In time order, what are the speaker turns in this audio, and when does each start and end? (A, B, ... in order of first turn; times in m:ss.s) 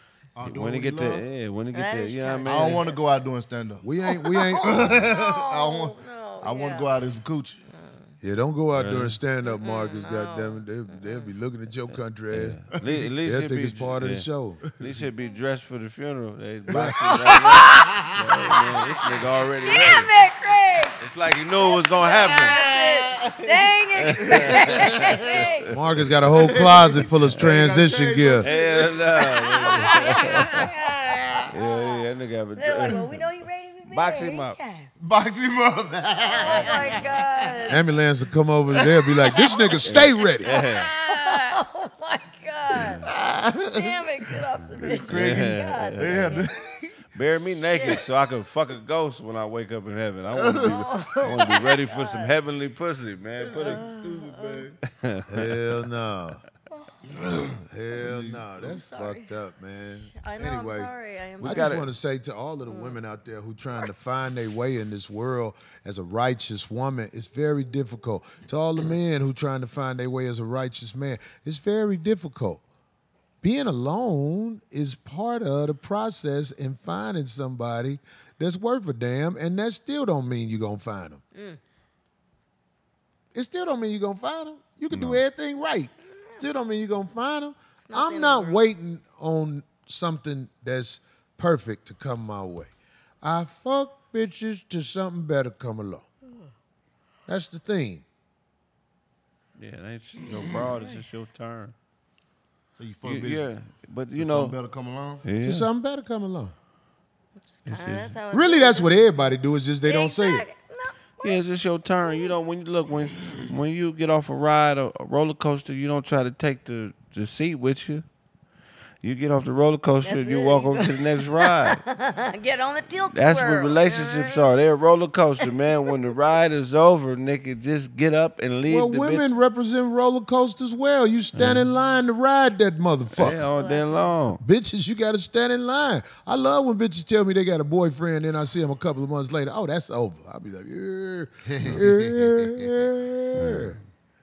0:00.4-0:01.2 A
0:00.4-0:02.9 B
0:01.7-0:03.0 C
0:02.5-0:07.6 A
0:03.8-0:04.8 D
0:04.0-0:06.9 C
0:07.7-0:08.1 C
0:08.2-0:12.6 D
0:08.7-0:09.2 B
0:09.4-0:11.3 C
0:12.3-0:20.1 B
0:13.2-0:14.6 D
0:14.7-0:15.0 A
0:16.7-0:18.6 A
0:17.0-0:21.0 C
0:21.0-0:22.6 B
0:21.6-0:25.7 C
0:22.1-0:23.7 A
0:24.0-0:26.1 B
0:24.2-0:25.5 A
0:25.7-0:28.5 D
0:26.3-0:31.5 A
0:28.4-0:30.7 B
0:28.7-0:34.9 C
0:31.5-0:33.2 B
0:33.9-0:34.6 B
0:35.0-0:37.7 A
0:36.2-0:37.8 C
0:37.7-0:40.5 D
0:38.7-0:41.6 A
0:39.3-0:39.8 C
0:39.8-0:40.9 B
0:40.4-0:43.1 C
0:42.8-0:44.0 A
0:42.8-0:43.0 B
0:43.7-0:46.6 C
0:44.8-0:47.0 A
0:44.8-0:46.4 B
0:47.1-0:53.9 B
0:47.5-0:48.0 C
0:47.8-0:48.0 A
0:50.3-0:51.3 A
0:50.6-0:52.3 C
0:53.4-0:54.8 A
0:53.6-0:54.6 C
0:54.9-0:55.6 B
0:55.3-0:56.4 D
0:57.1-0:58.7 A
0:57.6-1:12.6 D
0:58.6-0:59.3 C
1:00.1-1:01.8 C
1:01.4-1:01.8 B
1:02.7-1:03.0 C
1:13.4-1:21.2 D
1:21.3-1:21.6 C
1:23.3-1:36.0 D
1:24.9-1:25.2 B
1:27.8-1:28.6 C
1:36.3-1:36.5 C
1:37.3-1:38.0 D
1:39.6-1:41.7 B
1:40.3-1:40.6 A
1:40.5-1:41.1 C
1:42.8-1:43.5 A
1:43.0-1:44.6 B
1:44.1-1:45.2 A
1:45.2-1:45.7 B
1:45.4-1:46.5 D
1:47.5-1:49.0 C
1:47.7-1:48.1 A
1:48.3-1:50.4 D
1:49.8-1:51.4 C
1:51.2-1:58.0 B
1:52.0-1:52.3 C
1:59.0-2:01.8 B
2:00.0-2:04.5 C
2:03.1-2:09.3 B
2:08.7-2:13.4 D
2:11.3-2:11.6 B
2:13.1-2:14.4 B
2:13.5-2:14.1 C
2:14.4-2:23.8 D
2:21.5-2:22.7 A
2:23.4-2:23.8 B